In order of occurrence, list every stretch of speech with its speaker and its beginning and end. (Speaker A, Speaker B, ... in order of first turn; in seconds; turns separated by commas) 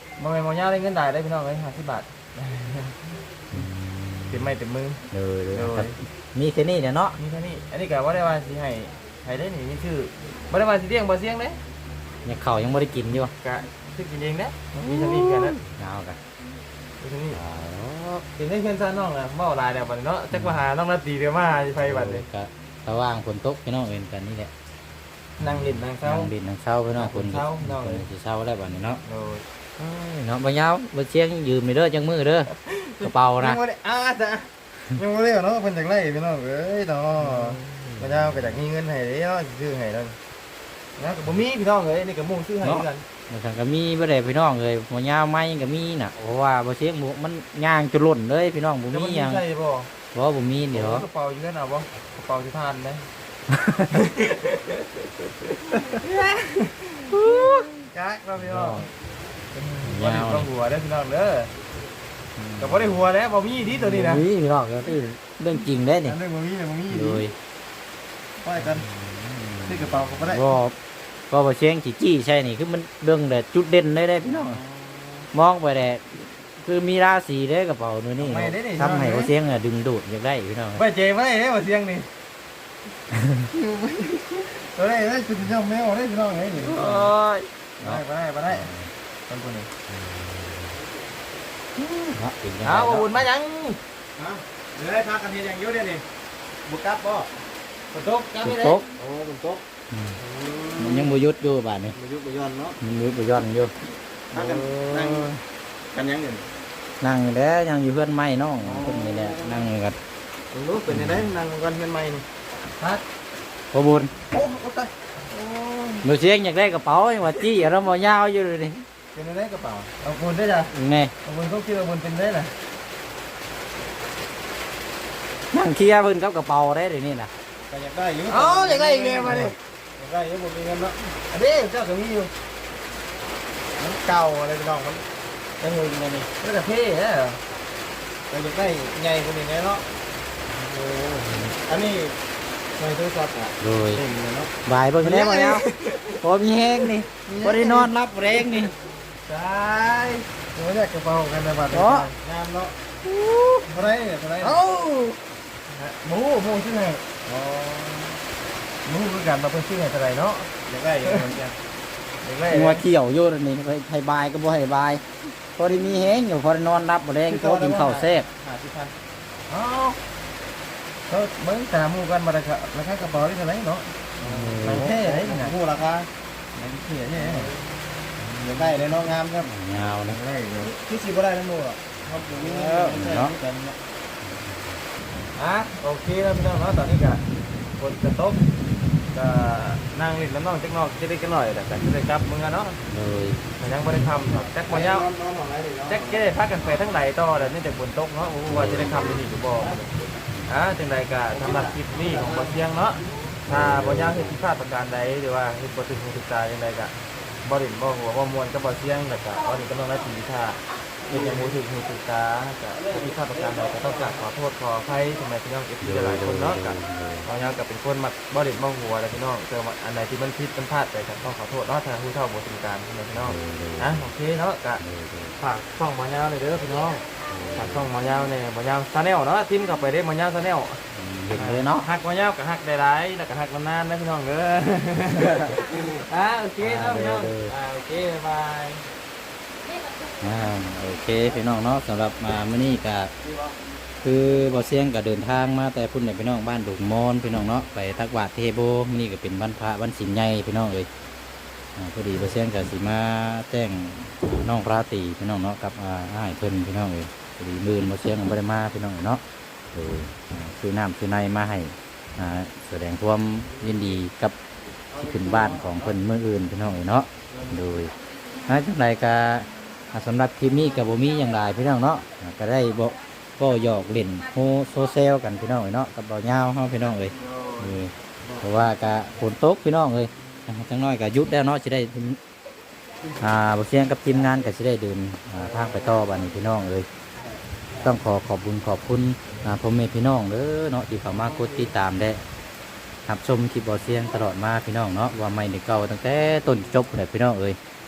Speaker A: 0.2-3.7, Speaker B: 3.5-4.5, Speaker A: 4.3-5.0, Speaker B: 5.1-7.2, Speaker A: 5.5-6.0, Speaker A: 7.2-11.6, Speaker B: 12.2-13.3, Speaker A: 13.4-15.6, Speaker B: 14.9-16.2, Speaker A: 17.0-17.4, Speaker B: 17.3-18.2, Speaker A: 18.4-22.3, Speaker B: 20.3-20.6, Speaker B: 21.8-24.5, Speaker A: 25.4-26.3, Speaker B: 25.4-29.0, Speaker A: 26.9-28.1, Speaker A: 29.1-29.4, Speaker B: 29.8-33.6, Speaker A: 32.6-40.2, Speaker B: 37.2-38.6, Speaker A: 41.0-43.0, Speaker B: 42.6-49.4, Speaker A: 48.9-49.9, Speaker B: 50.1-51.1, Speaker A: 50.7-53.1, Speaker B: 53.5-53.9, Speaker A: 53.9-54.8, Speaker A: 55.7-58.9, Speaker B: 57.1-57.7, Speaker B: 58.4-58.9, Speaker A: 59.5-61.5, Speaker B: 59.8-60.5, Speaker B: 62.4-63.0, Speaker A: 62.6-64.3, Speaker B: 63.7-66.2, Speaker A: 66.0-67.2, Speaker B: 66.9-67.3, Speaker A: 68.4-68.9, Speaker B: 68.6-70.8, Speaker A: 69.7-70.5, Speaker B: 71.3-74.6, Speaker A: 74.2-75.3, Speaker B: 75.3-80.8, Speaker A: 78.2-79.3, Speaker A: 80.8-82.1, Speaker B: 83.2-83.5, Speaker A: 83.5-88.7, Speaker B: 86.6-87.2, Speaker B: 87.8-88.9, Speaker A: 89.3-89.7, Speaker B: 89.9-90.8, Speaker B: 91.8-93.2, Speaker A: 92.6-96.0, Speaker A: 96.7-97.3, Speaker A: 97.9-99.6, Speaker B: 98.4-98.9, Speaker B: 99.9-100.2, Speaker A: 100.2-101.2, Speaker B: 100.8-102.0, Speaker A: 101.9-102.8, Speaker B: 102.8-103.7, Speaker A: 104.3-105.3, Speaker B: 104.3-105.4, Speaker A: 105.9-106.4, Speaker B: 107.0-110.0, Speaker A: 108.6-109.7, Speaker A: 110.5-112.2, Speaker B: 110.9-111.3, Speaker A: 112.8-113.0, Speaker B: 113.7-114.1, Speaker A: 114.3-116.1, Speaker B: 116.0-118.8, Speaker A: 119.1-120.7, Speaker B: 120.7-121.1, Speaker A: 121.2-122.6, Speaker B: 125.5-127.3, Speaker A: 127.7-132.3, Speaker B: 128.3-129.6, Speaker A: 133.8-135.0, Speaker A: 135.6-137.4, Speaker A: 138.3-139.8, Speaker B: 140.8-141.6, Speaker A: 141.6-142.2, Speaker A: 142.8-146.2, Speaker B: 143.6-144.0, Speaker B: 144.7-145.7, Speaker B: 146.2-148.7, Speaker A: 146.8-147.9, Speaker A: 149.3-152.8, Speaker B: 151.7-152.1, Speaker B: 153.1-153.6, Speaker A: 153.7-154.6, Speaker B: 154.4-155.2, Speaker A: 155.7-158.2, Speaker A: 158.8-161.6, Speaker A: 162.2-162.8, Speaker B: 162.5-165.0, Speaker B: 165.6-168.3, Speaker A: 167.3-168.9, Speaker A: 169.5-170.0, Speaker A: 171.1-177.6, Speaker B: 174.2-175.1, Speaker B: 177.2-177.5, Speaker B: 178.2-178.8, Speaker A: 178.4-179.5, Speaker B: 179.4-180.2, Speaker A: 180.1-183.8, Speaker B: 182.3-183.4, Speaker B: 184.2-184.7, Speaker A: 185.4-187.2, Speaker A: 187.8-188.4, Speaker A: 189.1-192.8, Speaker B: 192.9-193.4, Speaker A: 193.6-199.9, Speaker B: 198.5-199.3, Speaker A: 200.5-224.8, Speaker B: 203.5-204.4, Speaker B: 215.8-217.3, Speaker B: 223.2-224.1, Speaker B: 224.8-225.4, Speaker A: 225.4-230.8, Speaker B: 227.3-227.9, Speaker B: 230.9-231.9, Speaker A: 231.3-238.9, Speaker B: 236.6-237.5, Speaker B: 240.2-243.1, Speaker B: 244.0-250.9, Speaker B: 251.8-259.2, Speaker B: 259.7-264.4, Speaker B: 264.9-267.9, Speaker A: 265.0-265.9, Speaker B: 268.5-282.2, Speaker A: 277.3-277.6, Speaker B: 283.2-286.9, Speaker B: 287.8-292.2, Speaker B: 293.1-297.6